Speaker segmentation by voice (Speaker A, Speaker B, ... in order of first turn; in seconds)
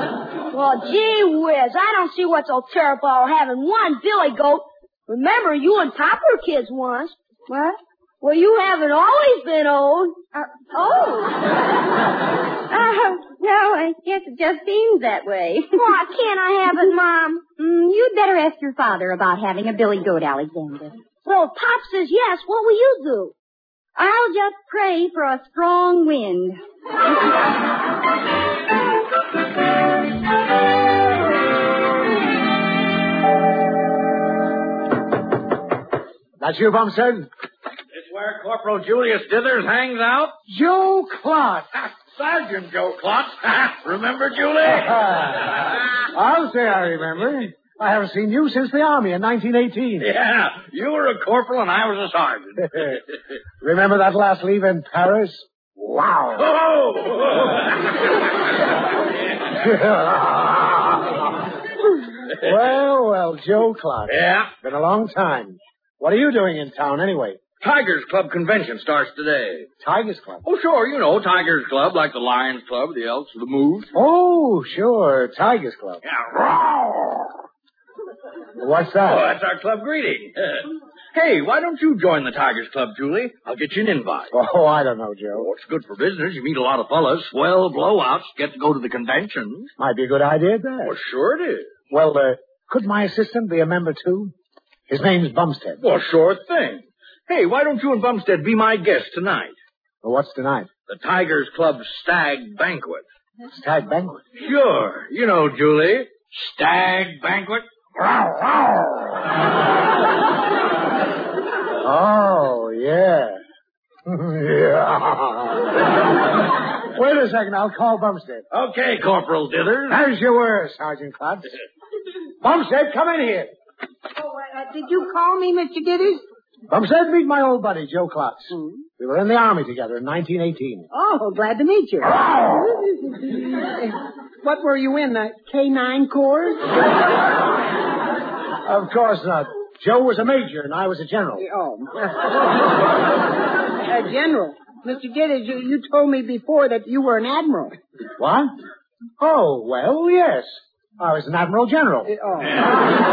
Speaker A: 0.5-7.2, 8.2-10.2, 15.8-17.4, 21.2-23.3
Speaker B: 7.5-7.8, 10.3-11.5, 12.7-15.8, 17.6-21.0, 24.0-26.6
Speaker C: 36.4-37.3, 40.5-41.7, 44.7-50.1, 53.6-56.5, 59.5-61.1, 62.4-67.4, 69.8-70.4, 73.9-76.0, 78.6-79.2, 84.3-85.5, 89.8-90.9, 91.9-94.3, 94.9-95.8, 100.0-100.7, 103.5-104.2, 108.0-108.6, 111.8-113.4, 114.0-115.7, 116.9-118.4, 119.9-121.5, 122.4-123.5, 126.7-130.9, 132.1-132.4, 138.6-141.4, 148.2-148.5, 149.2-152.1
Speaker D: 37.9-40.3, 41.8-45.6, 50.0-53.0, 56.4-57.6, 64.1-64.5, 67.6-69.7, 70.4-73.9, 76.0-77.3, 79.0-80.6, 81.1-84.3, 85.3-89.7, 90.8-91.7, 95.8-99.5, 100.9-103.0, 104.4-107.6, 118.5-120.0
Speaker E: 124.2-126.2, 130.9-136.8, 141.4-142.3, 143.8-147.8, 152.1-152.7